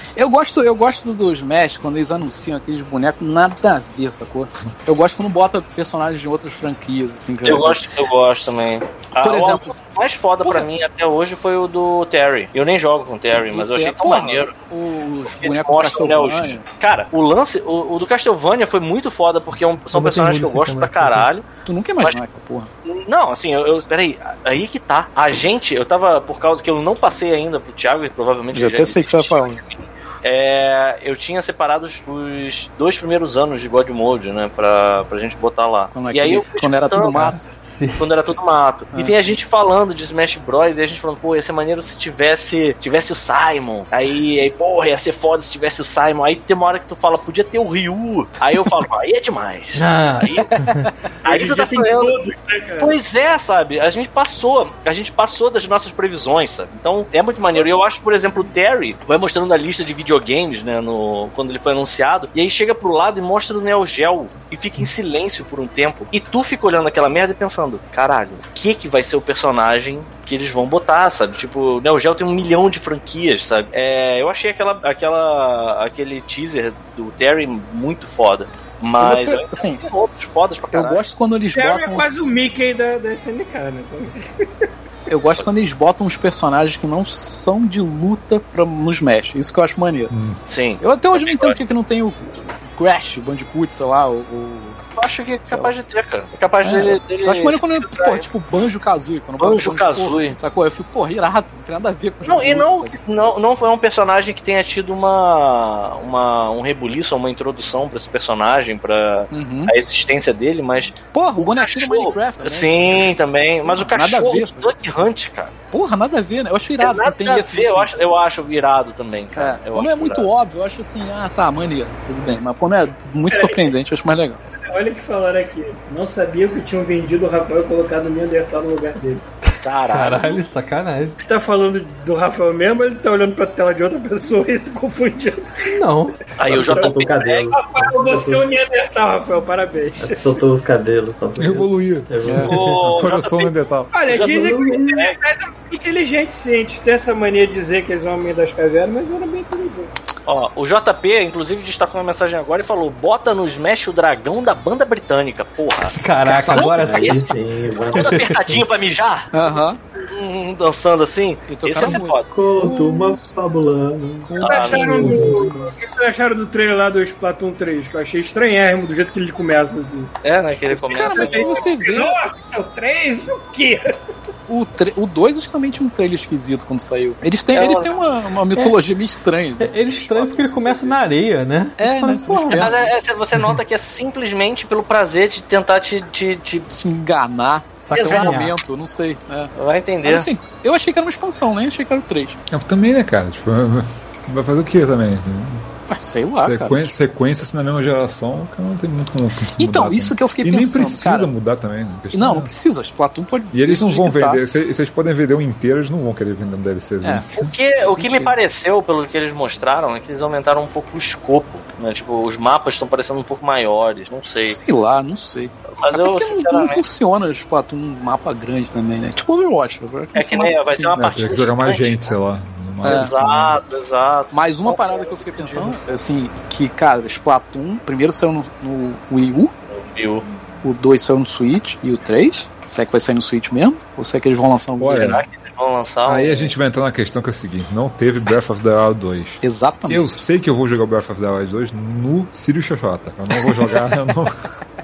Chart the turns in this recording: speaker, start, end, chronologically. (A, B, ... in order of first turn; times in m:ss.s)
0:00.2-0:07.8 A
0:07.4-0:14.5 B
0:09.2-0:09.7 A
0:13.5-0:16.6 A
0:15.3-0:21.4 B
0:19.9-0:21.3 C
0:21.6-0:22.7 A
0:22.8-0:37.2 B
0:28.5-0:29.6 A
0:35.9-0:37.5 A
0:37.1-0:38.0 C
0:38.0-0:50.5 B
0:49.7-0:50.9 C
0:50.5-0:50.9 A
0:51.2-0:53.0 D
0:51.2-0:52.2 B
0:52.8-1:21.0 B
1:19.0-1:19.8 A
1:20.7-1:22.1 A
1:21.5-1:24.4 D
1:25.1-1:30.1 A
1:30.1-1:30.4 E
1:30.5-1:31.6 B
1:30.8-1:34.8 A
1:35.0-1:38.2 B
1:35.4-1:35.7 A
1:36.6-1:43.0 A
1:39.4-1:40.4 B
1:42.2-1:55.5 B
1:49.3-1:49.7 A
1:51.1-1:53.1 A
1:53.7-1:54.7 A
1:55.7-1:57.9 A
1:56.8-2:00.2 B
1:59.4-2:04.4 A
2:03.3-2:03.7 D
2:04.6-2:09.3 D
2:09.5-2:11.1 C
2:09.6-2:10.4 B
2:11.2-2:15.8 D
2:15.7-2:16.2 C
2:16.4-2:17.5 B
2:16.4-2:18.4 F
2:16.5-2:17.0 D
2:17.5-2:20.4 D
2:20.0-2:22.8 F
2:21.4-2:22.1 E
2:22.2-2:22.5 A
2:22.4-2:23.5 B
2:22.8-2:23.9 E
2:23.9-2:29.9 D
2:24.1-2:24.5 B
2:24.1-2:25.1 F
2:30.2-2:37.2 B
2:35.9-2:37.3 C
2:36.3-2:36.6 A
2:36.6-2:38.6 F
2:37.9-2:39.3 B
2:37.9-2:38.2 C
2:39.3-2:39.8 A
2:40.0-2:42.3 B
2:41.5-2:43.3 A
2:42.3-2:44.3 F
2:44.2-2:45.7 A
2:44.4-2:45.2 B
2:44.4-2:50.1 D
2:45.0-2:45.5 F
2:50.2-2:51.7 B
2:50.7-2:53.8 D
2:50.9-2:52.1 A
2:54.5-3:01.0 A
2:57.5-2:57.9 B
2:59.6-3:02.8 C
3:01.8-3:02.9 A
3:02.5-3:06.7 B
3:06.7-3:09.5 A
3:07.8-3:08.5 C
3:07.9-3:08.3 B
3:09.5-3:10.3 B
3:10.0-3:12.4 A
3:12.5-3:15.6 E
3:15.9-3:16.9 A
3:16.3-3:22.5 E
3:19.6-3:21.3 A
3:22.1-3:24.4 A
3:23.5-3:27.5 E
3:27.0-3:28.3 A
3:27.4-3:34.6 B
3:34.5-3:41.2 A
3:35.8-3:36.8 B
3:40.1-3:42.1 B
3:41.0-3:43.6 E
3:42.8-3:43.1 A
3:42.8-3:44.3 B
3:44.3-3:49.5 A
3:44.7-3:45.6 D
3:49.7-3:50.2 B
3:50.6-3:55.2 A
3:54.8-3:55.2 E
3:54.9-3:56.5 B
3:56.0-4:04.4 E
3:59.4-4:00.2 A